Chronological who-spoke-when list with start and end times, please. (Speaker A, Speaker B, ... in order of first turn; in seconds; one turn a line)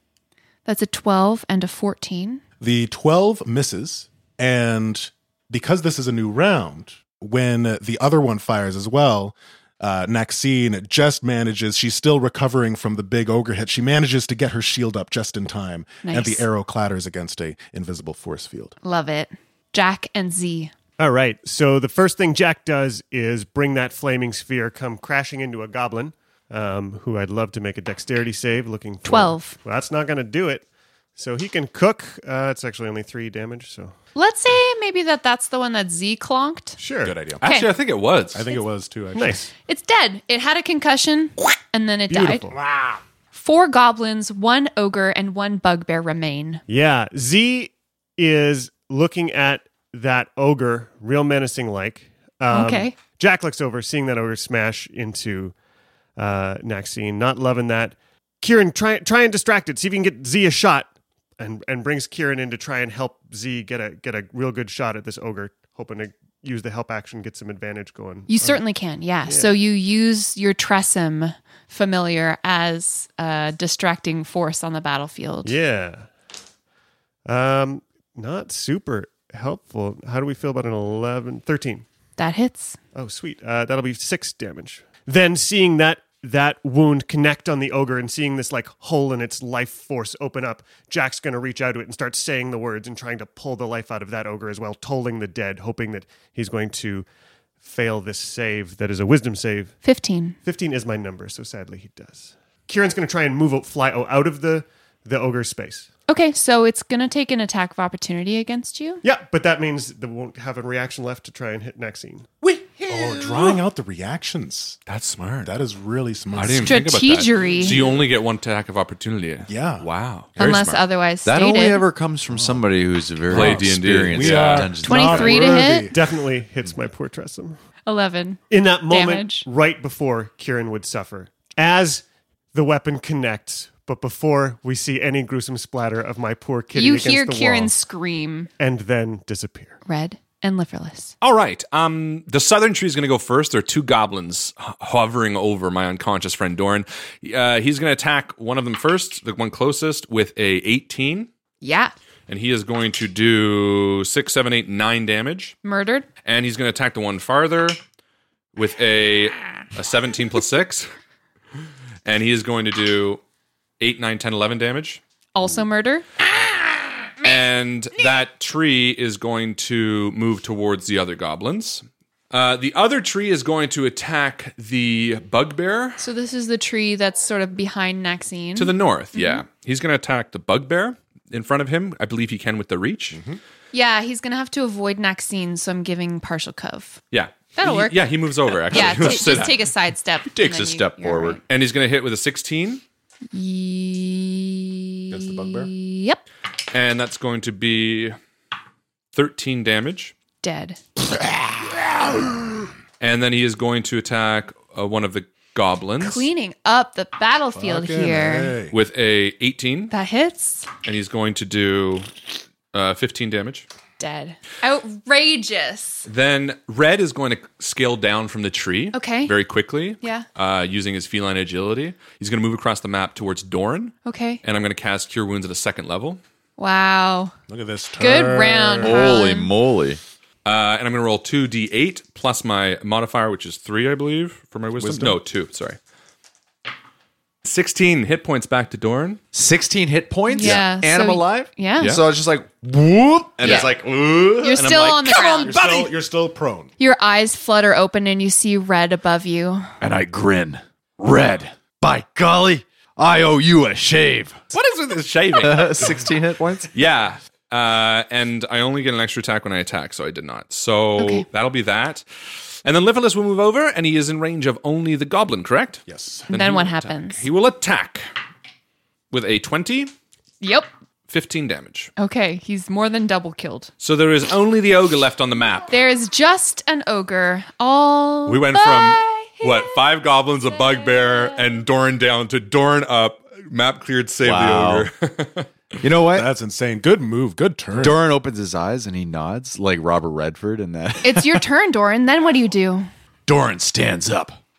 Speaker A: 0.7-2.4
Speaker B: 2.6-18.7
Speaker A: 16.0-16.4
Speaker A: 18.8-20.7
Speaker C: 21.0-33.9
Speaker A: 29.0-29.6
Speaker A: 34.1-36.8
Speaker C: 36.8-37.2
Speaker B: 37.0-37.5
Speaker D: 37.4-38.5
Speaker A: 37.4-37.7
Speaker B: 38.3-39.5
Speaker C: 39.1-39.5
Speaker A: 39.7-42.5
Speaker C: 42.1-42.5
Speaker A: 43.3-46.6
Speaker C: 46.7-55.5
Speaker A: 52.5-53.0
Speaker C: 56.1-68.6
Speaker A: 68.3-75.5
Speaker C: 69.2-69.6
Speaker C: 75.4-76.1
Speaker C: 77.2-81.8
Speaker A: 82.2-82.8
Speaker C: 82.9-97.0
Speaker C: 97.6-99.8
Speaker A: 99.8-100.4
Speaker C: 100.4-105.9
Speaker A: 106.1-109.0
Speaker C: 109.0-112.3
Speaker B: 112.8-114.8
Speaker D: 114.9-115.5
Speaker B: 115.4-116.8
Speaker D: 116.3-120.8
Speaker A: 116.6-117.8
Speaker B: 117.6-118.0
Speaker B: 119.5-119.9
Speaker A: 120.4-121.8
Speaker E: 121.2-125.7
Speaker B: 122.3-122.7
Speaker B: 123.3-126.1
Speaker D: 123.3-124.7
Speaker A: 124.8-125.9
Speaker C: 125.9-127.6
Speaker A: 127.8-129.4
Speaker C: 128.5-137.7
Speaker A: 136.7-138.5
Speaker C: 138.6-139.8
Speaker A: 139.8-141.1
Speaker D: 141.2-151.3
Speaker A: 151.6-151.9
Speaker D: 152.3-155.6
Speaker A: 155.6-156.1
Speaker D: 156.2-157.8
Speaker D: 158.6-160.8
Speaker D: 162.0-163.2
Speaker D: 163.8-165.0
Speaker A: 165.3-166.1
Speaker D: 167.2-176.0
Speaker A: 176.0-179.4
Speaker D: 178.6-183.2
Speaker B: 183.1-183.4
Speaker A: 183.7-187.0
Speaker D: 187.1-189.7
Speaker A: 187.6-188.0
Speaker A: 188.7-191.4
Speaker E: 190.3-191.4
Speaker D: 191.5-192.8
Speaker A: 193.3-196.2
Speaker B: 195.1-195.7
Speaker D: 196.7-198.2
Speaker D: 199.1-200.1
Speaker A: 200.4-200.8
Speaker D: 203.0-206.3
Speaker A: 206.0-208.5
Speaker B: 207.5-208.8
Speaker D: 208.7-209.9
Speaker A: 209.9-210.7
Speaker D: 210.8-212.1
Speaker D: 212.7-213.7
Speaker A: 214.0-216.1
Speaker D: 216.1-226.2
Speaker A: 218.9-219.3
Speaker A: 220.0-220.2
Speaker A: 224.1-224.4
Speaker A: 226.6-227.3
Speaker B: 227.5-229.0
Speaker A: 228.0-229.5
Speaker E: 228.8-230.0
Speaker D: 230.4-235.8
Speaker B: 234.8-235.2
Speaker D: 237.4-239.2
Speaker E: 239.3-242.7
Speaker A: 240.3-241.9
Speaker F: 242.7-243.6
Speaker E: 243.3-244.6
Speaker A: 243.4-243.7
Speaker A: 244.4-245.6
Speaker D: 244.6-245.6
Speaker B: 245.4-246.7
Speaker A: 246.8-249.6
Speaker F: 249.8-254.4
Speaker D: 254.5-255.9
Speaker E: 255.4-256.7
Speaker D: 256.7-262.0
Speaker A: 261.0-261.2
Speaker D: 262.6-268.1
Speaker B: 265.9-266.3
Speaker A: 266.3-267.2
Speaker D: 269.1-269.9
Speaker A: 270.4-270.7
Speaker D: 271.1-271.9
Speaker A: 272.0-273.7
Speaker D: 273.8-275.7
Speaker A: 275.7-279.8
Speaker D: 278.2-285.5
Speaker A: 280.5-281.6
Speaker E: 284.2-284.9
Speaker E: 285.8-286.3
Speaker B: 286.1-288.0
Speaker E: 287.8-291.4
Speaker A: 291.0-292.9
Speaker F: 293.3-294.4